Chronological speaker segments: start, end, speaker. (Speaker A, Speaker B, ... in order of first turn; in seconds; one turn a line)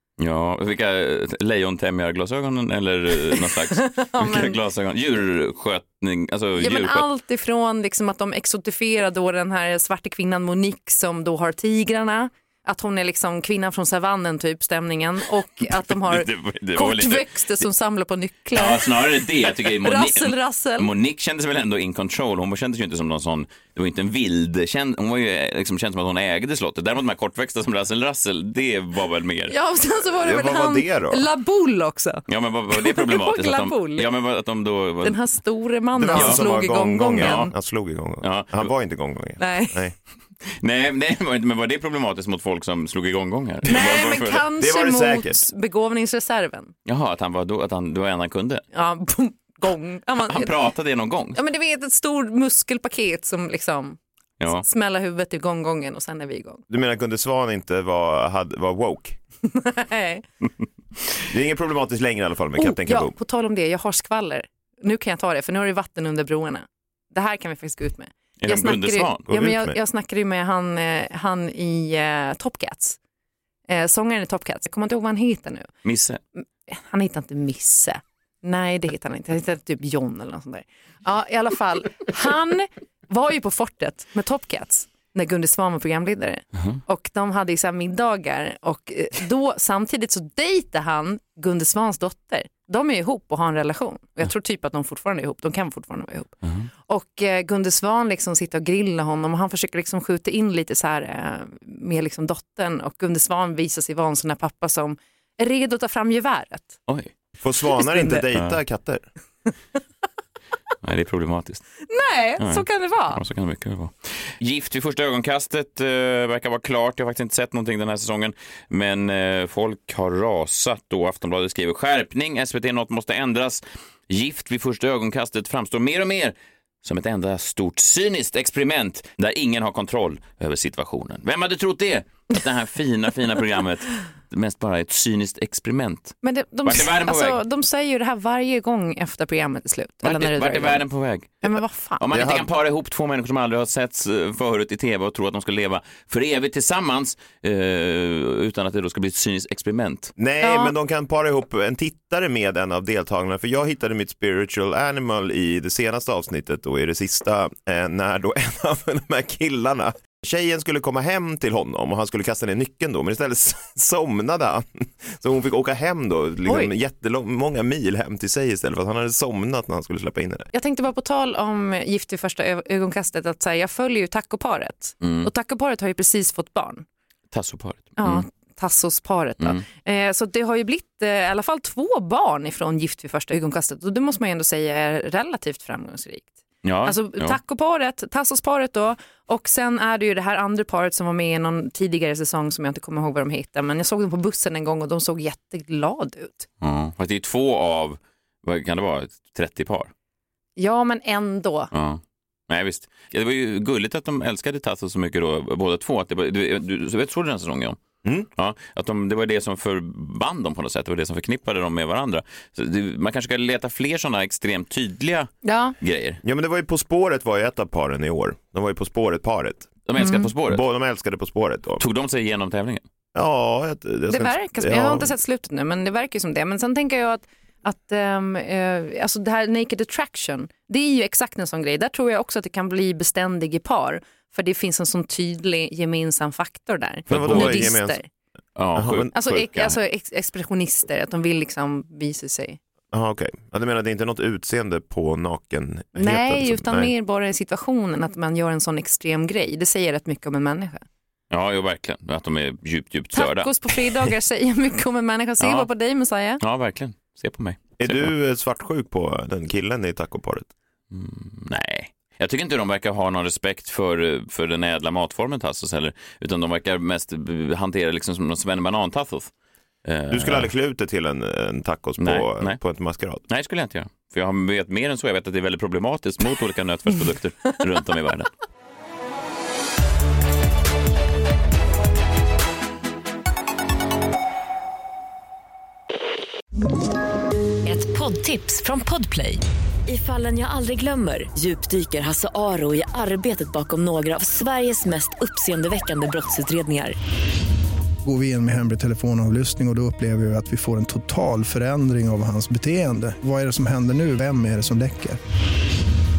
Speaker A: 0.2-7.1
Speaker B: 3.3-4.6
Speaker B: 6.6-20.9
Speaker A: 16.0-17.3
Speaker A: 18.5-29.5
Speaker B: 29.5-34.1
Speaker C: 30.2-31.3
Speaker A: 32.3-35.2
Speaker B: 35.0-37.5
Speaker C: 36.0-39.9
Speaker A: 36.1-36.4
Speaker A: 37.2-37.5
Speaker A: 38.2-38.7
Speaker B: 39.4-39.9
Speaker A: 40.5-44.5
Speaker B: 43.6-46.7
Speaker C: 44.6-45.5
Speaker A: 46.9-48.6
Speaker B: 48.7-50.5
Speaker A: 50.3-51.4
Speaker B: 51.3-54.0
Speaker A: 54.4-54.6
Speaker B: 54.5-56.6
Speaker C: 56.7-59.2
Speaker B: 59.5-60.2
Speaker C: 61.3-63.1
Speaker B: 62.6-73.0
Speaker A: 68.4-69.2
Speaker C: 69.3-69.8
Speaker B: 73.7-75.7
Speaker A: 75.8-76.2
Speaker B: 76.7-96.3
Speaker B: 96.9-106.8
Speaker C: 107.4-109.0
Speaker A: 108.3-108.6
Speaker A: 110.8-111.7
Speaker B: 111.9-113.2
Speaker A: 112.4-137.4
Speaker B: 136.2-140.8
Speaker A: 140.0-150.1
Speaker B: 141.4-142.1
Speaker C: 142.1-142.5
Speaker C: 150.2-170.5
Speaker B: 150.4-150.7
Speaker B: 166.4-166.7
Speaker B: 170.5-176.8
Speaker A: 175.0-175.3
Speaker A: 177.3-178.2
Speaker B: 178.0-186.3
Speaker A: 179.4-179.6
Speaker A: 186.6-187.4
Speaker B: 186.8-196.5
Speaker A: 196.6-199.9
Speaker B: 200.6-201.7
Speaker A: 201.7-207.8
Speaker A: 208.3-216.2
Speaker B: 215.4-215.7
Speaker C: 216.2-219.7
Speaker A: 219.8-220.6
Speaker B: 220.0-220.3
Speaker C: 220.4-221.8
Speaker A: 221.8-222.8
Speaker C: 223.1-225.1
Speaker B: 224.1-238.1
Speaker A: 237.1-237.7
Speaker C: 237.1-238.0
Speaker A: 238.6-239.8
Speaker C: 238.7-239.1
Speaker B: 239.1-242.6
Speaker C: 242.9-246.9
Speaker B: 245.9-250.8
Speaker A: 251.3-254.1
Speaker B: 253.1-256.4
Speaker A: 255.4-255.7
Speaker A: 256.4-258.1
Speaker C: 257.8-260.5
Speaker A: 260.9-269.3
Speaker A: 269.8-270.5
Speaker C: 270.1-273.2
Speaker A: 272.0-272.6
Speaker A: 273.3-278.3
Speaker D: 287.6-296.9
Speaker E: 298.0-305.2